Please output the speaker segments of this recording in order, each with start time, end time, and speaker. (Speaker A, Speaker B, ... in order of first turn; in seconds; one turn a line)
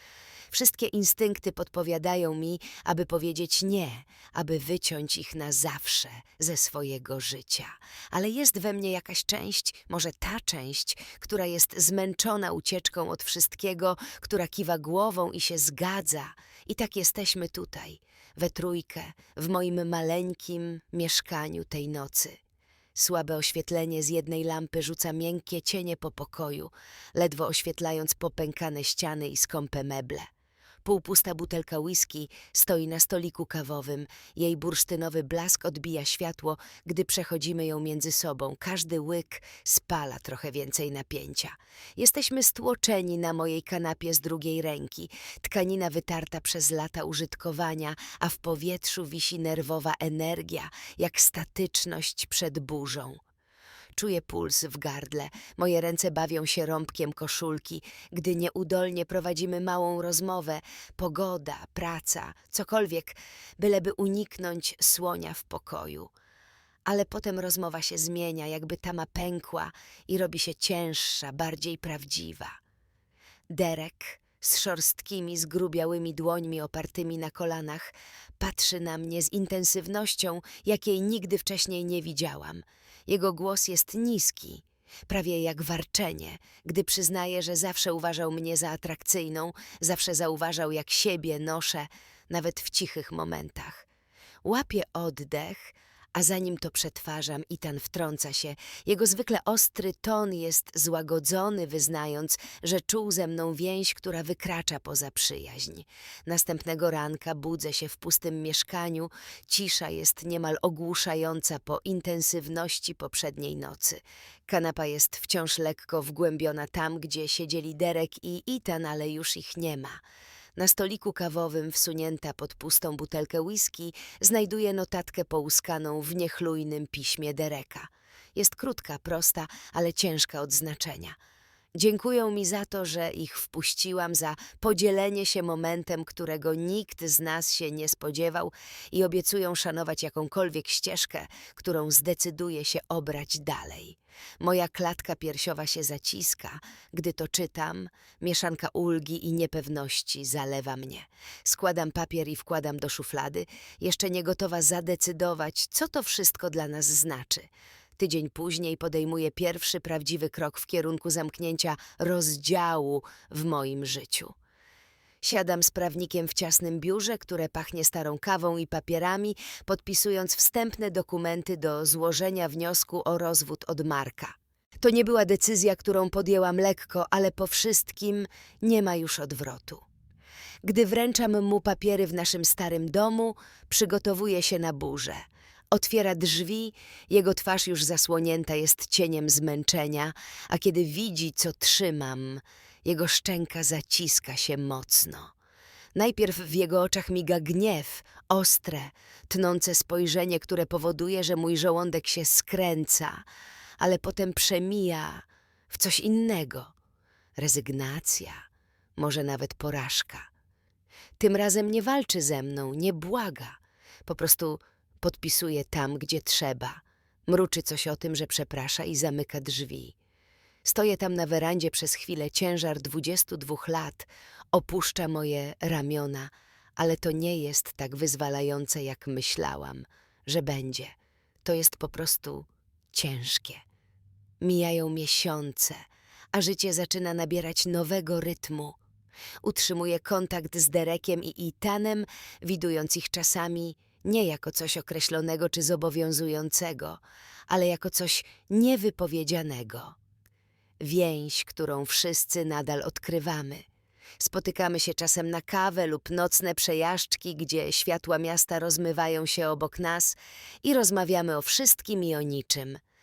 Speaker A: 0.5-22.4
Speaker A: 22.9-30.3
Speaker A: 30.8-53.2
Speaker A: 54.0-66.1
Speaker A: 66.9-72.6
Speaker A: 73.5-93.8
Speaker A: 94.4-120.0
Speaker A: 120.5-131.2
Speaker A: 131.8-164.3
Speaker A: 165.2-179.8
Speaker A: 180.6-195.3
Speaker A: 195.9-203.2
Speaker A: 203.8-206.7
Speaker A: 207.4-208.4
Speaker A: 209.0-210.3
Speaker A: 211.2-219.9
Speaker A: 220.6-230.9
Speaker A: 231.4-233.6
Speaker A: 234.4-238.8
Speaker A: 239.4-247.0
Speaker A: 247.5-249.9
Speaker A: 250.8-253.6
Speaker A: 254.2-262.8